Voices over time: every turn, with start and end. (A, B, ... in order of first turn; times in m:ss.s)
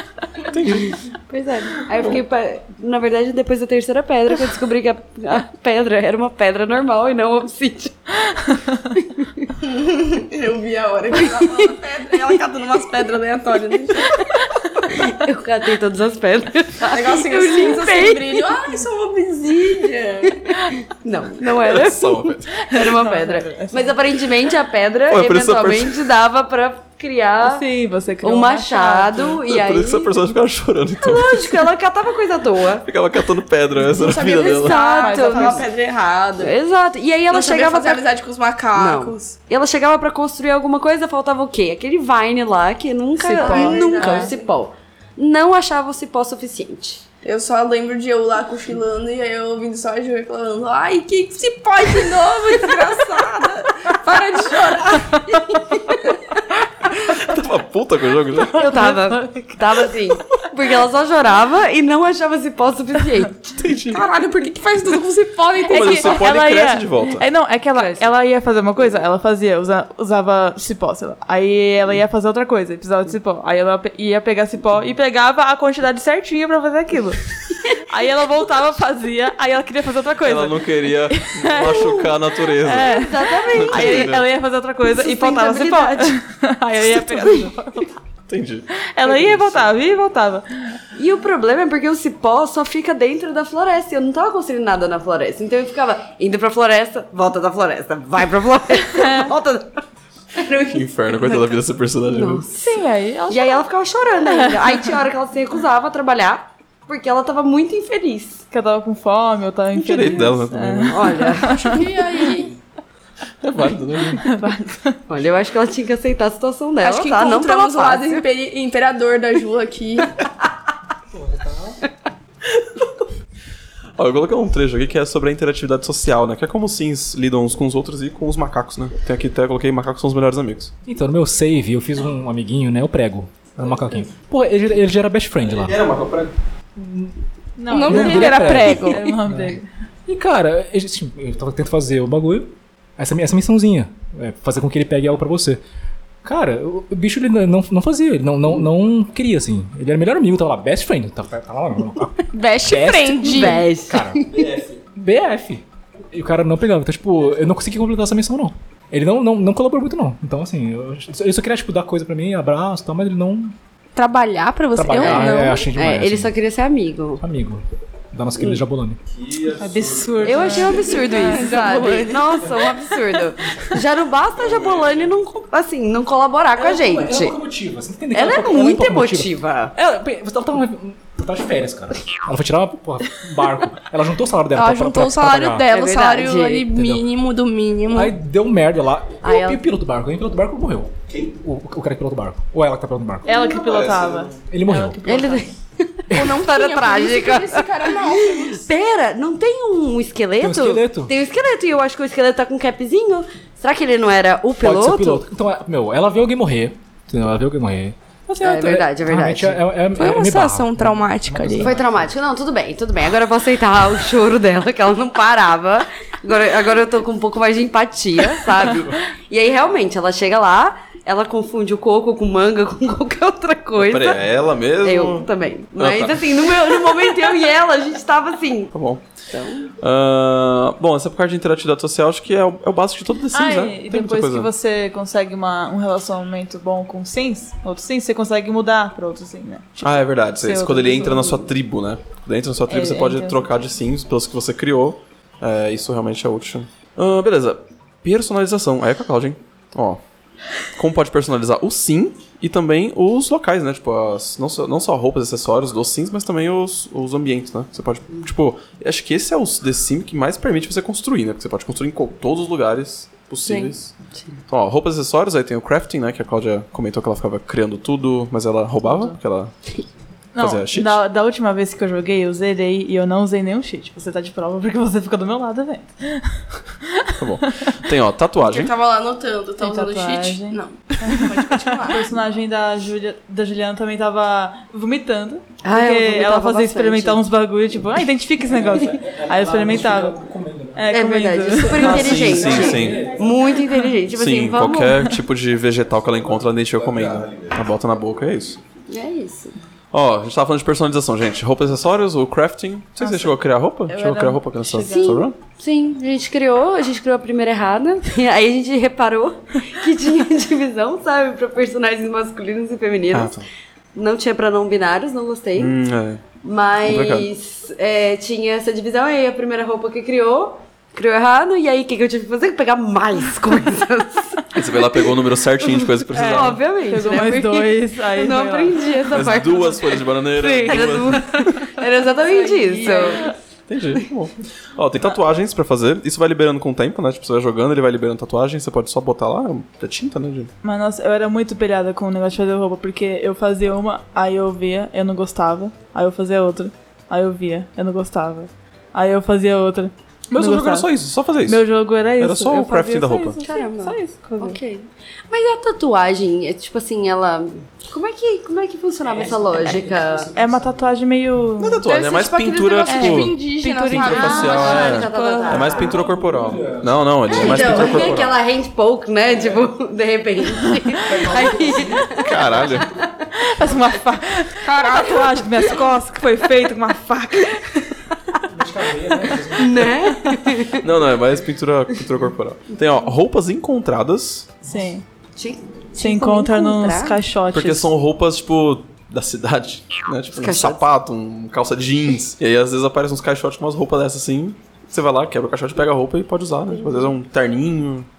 0:00.5-0:01.0 A
0:00.7-0:08.2 B
0:09.0-0:09.5 B
0:09.6-0:14.3 C
0:14.8-0:18.8 B
0:16.9-0:20.4 C
0:20.4-0:27.6 B
0:21.6-0:22.5 A
0:22.6-0:24.0 D
0:25.1-0:26.1 A
0:27.4-0:29.4 D
0:28.2-0:30.1 B
0:29.2-0:31.7 A
0:31.0-0:32.9 B
0:32.8-0:34.8 A
0:33.9-0:36.6 C
0:34.4-0:35.7 B
0:34.9-0:35.6 D
0:36.3-0:38.1 B
0:37.3-0:39.4 C
0:38.7-0:47.0 B
0:43.2-0:44.3 D
0:43.3-0:44.5 C
0:47.2-0:56.2 C
0:57.0-0:58.7 A
0:58.5-0:59.9 D
0:58.5-1:03.5 B
1:03.5-1:04.1 A
1:03.9-1:06.2 C
1:05.7-1:22.0 D
1:05.7-1:07.2 A
1:07.8-1:08.0 B
1:20.2-1:24.2 A
1:22.6-1:27.9 D
1:22.8-1:24.2 B
1:24.9-1:26.2 B
1:26.9-1:27.5 B
1:28.3-1:29.7 A
1:28.9-1:30.4 D
1:30.9-1:39.8 B
1:38.9-1:39.3 D
1:40.4-1:41.4 B
1:40.6-1:42.4 A
1:42.1-1:48.4 B
1:42.5-1:43.6 D
1:44.3-1:44.6 D
1:48.5-1:51.8 D
1:49.8-1:51.3 A
1:50.9-1:51.8 B
1:51.6-1:52.5 C
1:53.4-1:54.3 A
1:54.2-1:55.0 D
1:55.1-1:58.2 B
1:56.8-2:00.1 C
2:01.1-2:01.8 E
2:02.6-2:02.9 A
2:04.0-2:10.7 A
2:10.8-2:15.8 E
2:15.4-2:16.3 A
2:16.8-2:17.1 E
2:17.6-2:19.6 D
2:17.7-2:19.0 C
2:17.7-2:25.6 E
2:26.2-2:43.5 E
2:32.3-2:33.6 C
2:33.3-2:34.5 B
2:44.0-2:45.6 C
2:44.7-2:46.3 E
2:44.9-2:47.2 B
2:47.2-2:49.0 E
2:48.4-2:48.6 B
2:49.1-2:50.9 A
2:49.6-2:51.5 D
2:50.2-2:57.4 B
2:50.9-2:52.5 C
2:54.4-2:55.1 A
2:56.6-3:05.6 E
2:58.1-2:59.7 B
3:04.5-3:08.2 C
3:05.7-3:06.7 B
3:06.7-3:07.0 E
3:07.9-3:15.4 E
3:09.2-3:09.6 B
3:13.2-3:15.4 D
3:13.7-3:14.2 A
3:15.0-3:25.2 B
3:16.1-3:18.6 C
3:20.4-3:21.1 E
3:24.6-3:32.1 E
3:28.4-3:29.6 B
3:29.9-3:31.7 C
3:31.6-3:44.2 B
3:38.7-3:39.0 A
3:43.8-3:46.5 A
3:44.8-3:48.7 B
3:48.7-3:49.0 A
3:49.3-3:49.7 B
3:49.8-3:54.5 A
3:53.3-4:01.4 D
3:59.8-4:10.0 A
4:02.7-4:03.5 D
4:10.7-4:23.9 A
4:24.5-4:29.5 A
4:28.8-4:29.2 D
4:30.3-4:36.4 D
4:30.4-4:31.0 A
4:37.2-4:38.7 A
4:38.4-4:42.0 C
4:39.6-4:50.2 D
4:45.6-4:47.2 B
4:48.5-4:50.9 E
4:50.7-4:52.6 D
4:50.9-4:55.1 B
4:51.7-4:53.3 E
4:51.8-4:53.0 A
4:54.1-4:58.6 A
4:57.0-4:57.3 E
4:58.9-4:59.5 B
4:59.9-5:05.4 A
5:03.0-5:05.2 D
5:04.8-5:13.3 B
5:13.1-5:13.4 A
5:13.9-5:15.7 B
5:15.5-5:16.2 A
5:16.4-5:25.1 B
5:16.8-5:17.3 A
5:24.5-5:26.6 A
5:25.6-5:33.4 B
5:26.1-5:29.0 D
5:29.1-5:31.3 A
5:30.5-5:33.3 D
5:33.7-5:40.5 A
5:40.6-5:50.9 D
5:50.3-5:51.6 A
5:51.4-5:54.6 D
5:52.2-5:53.4 A
5:53.4-6:00.3 B
5:59.0-6:00.9 E
6:00.3-6:01.8 D
6:01.6-6:03.4 A
6:01.8-6:05.4 C
6:02.9-6:05.6 D
6:03.9-6:08.4 A
6:04.1-6:05.8 B
6:05.5-6:08.1 E
6:07.3-6:13.1 B
6:09.3-6:09.7 E
6:11.0-6:13.0 E
6:12.2-6:12.9 A
6:13.4-6:18.0 D
6:14.6-6:15.7 C
6:18.5-6:20.1 E
6:19.5-6:20.9 B
6:20.8-6:24.5 A
6:24.6-6:25.0 D
6:25.4-6:27.2 B
6:26.0-6:27.9 D
6:27.5-6:38.1 A
6:30.3-6:30.8 B